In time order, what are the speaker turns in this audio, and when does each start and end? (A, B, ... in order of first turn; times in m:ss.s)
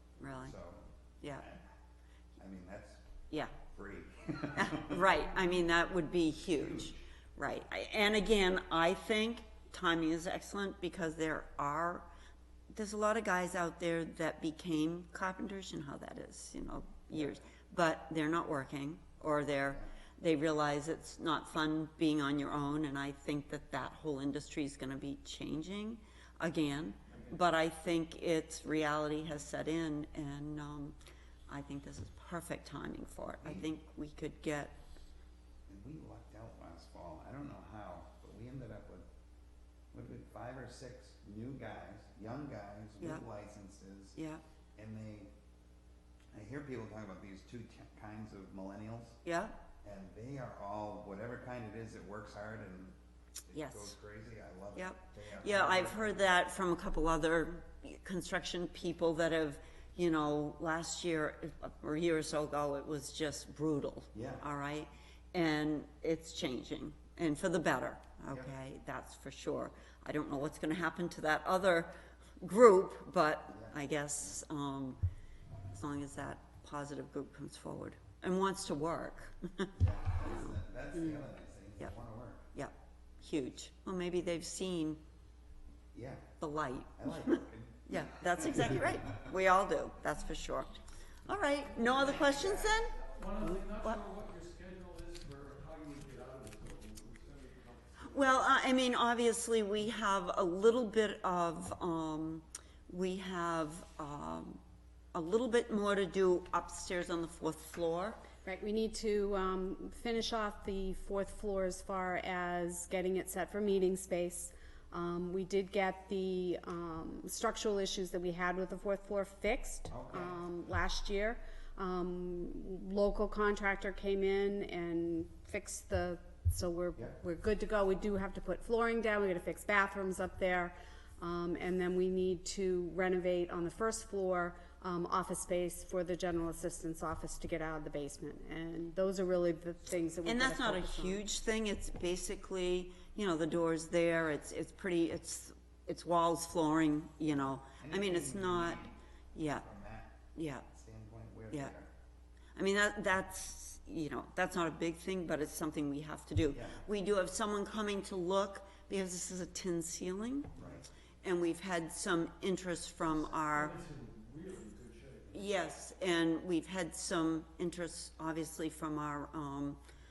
0:00.2-0:00.5 A
0:00.3-0:01.6 B
0:02.4-0:03.0 B
0:03.3-0:03.6 A
0:03.6-0:05.2 B
0:04.6-0:12.1 A
0:06.5-0:07.0 B
0:12.7-0:31.0 A
0:19.7-0:19.9 B
0:27.1-0:27.4 C
0:31.5-0:34.8 A
0:33.4-0:33.7 B
0:35.7-0:39.0 B
0:39.9-0:44.2 B
0:44.2-0:44.4 A
0:44.8-0:45.3 B
0:46.3-0:49.2 B
0:49.2-0:49.6 A
0:49.8-0:53.0 B
0:53.5-0:56.3 B
0:53.6-0:53.9 A
0:54.8-1:15.0 A
1:04.1-1:04.4 B
1:13.5-1:14.4 B
1:15.8-1:21.2 A
1:19.8-1:22.5 B
1:22.6-1:25.0 A
1:25.9-1:26.3 B
1:26.4-1:30.8 A
1:27.0-1:29.2 B
1:31.3-1:34.0 A
1:31.8-1:32.9 B
1:33.1-1:38.5 C
1:38.0-1:44.6 A
1:45.1-1:48.2 A
1:48.4-2:21.2 D
1:59.9-2:00.4 B
2:20.2-2:28.8 A
2:27.4-2:31.9 B
2:29.4-2:29.6 A
2:30.4-2:30.7 A
2:32.6-2:40.6 A
2:36.5-2:36.8 B
2:40.6-2:40.9 B
2:41.2-2:43.7 A
2:43.4-2:45.7 C
2:45.3-2:49.8 A